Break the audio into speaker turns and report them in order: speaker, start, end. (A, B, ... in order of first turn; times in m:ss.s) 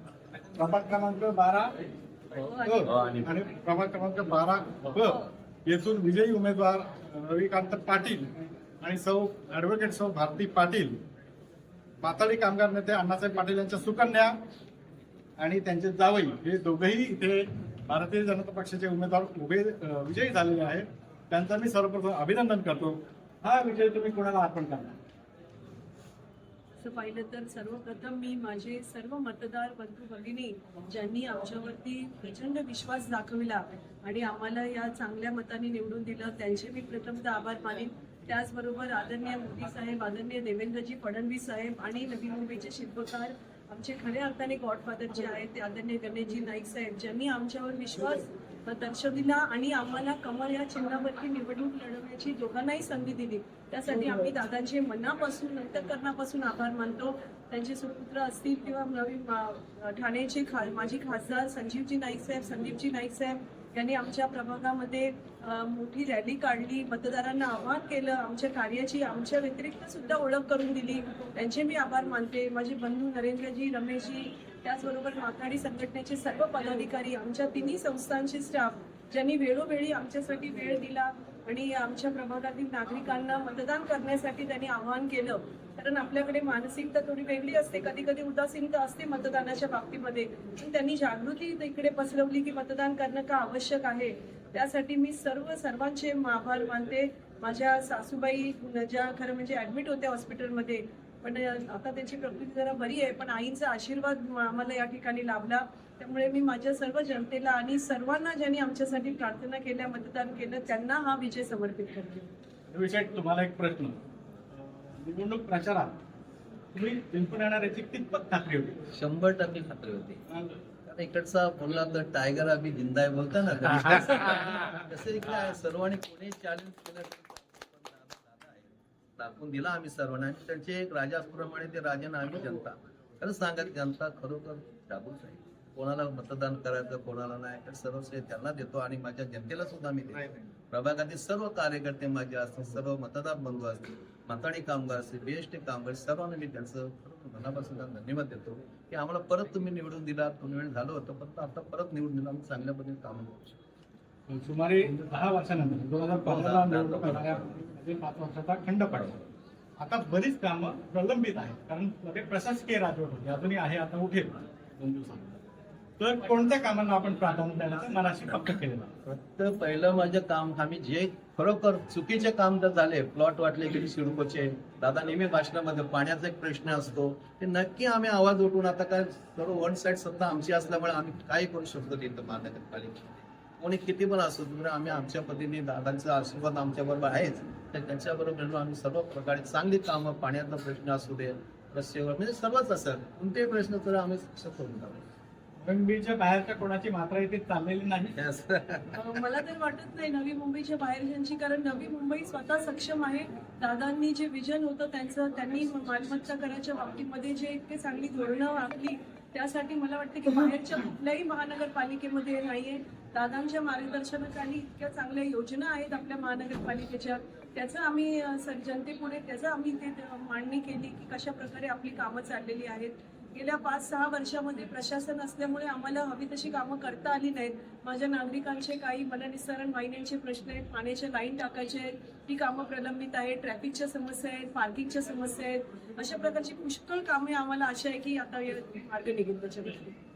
0:00.5-0:01.7 A
0:02.3-0:03.0 B
0:02.6-0:08.3 A
0:08.8-0:11.0 A
0:12.0-0:14.3 A
0:15.4-0:25.0 A
0:26.8-1:52.3 B
1:52.7-1:54.0 A
1:54.5-1:55.9 A
1:56.7-1:58.8 A
1:58.9-2:00.2 C
2:00.3-2:00.5 A
2:00.8-2:33.6 C
2:34.3-2:39.2 A
2:36.2-2:37.5 C
2:39.8-2:45.3 A
2:46.0-2:48.9 A
2:49.0-3:15.0 C
3:15.6-3:18.2 A
3:18.2-3:19.0 C
3:18.9-3:59.9 B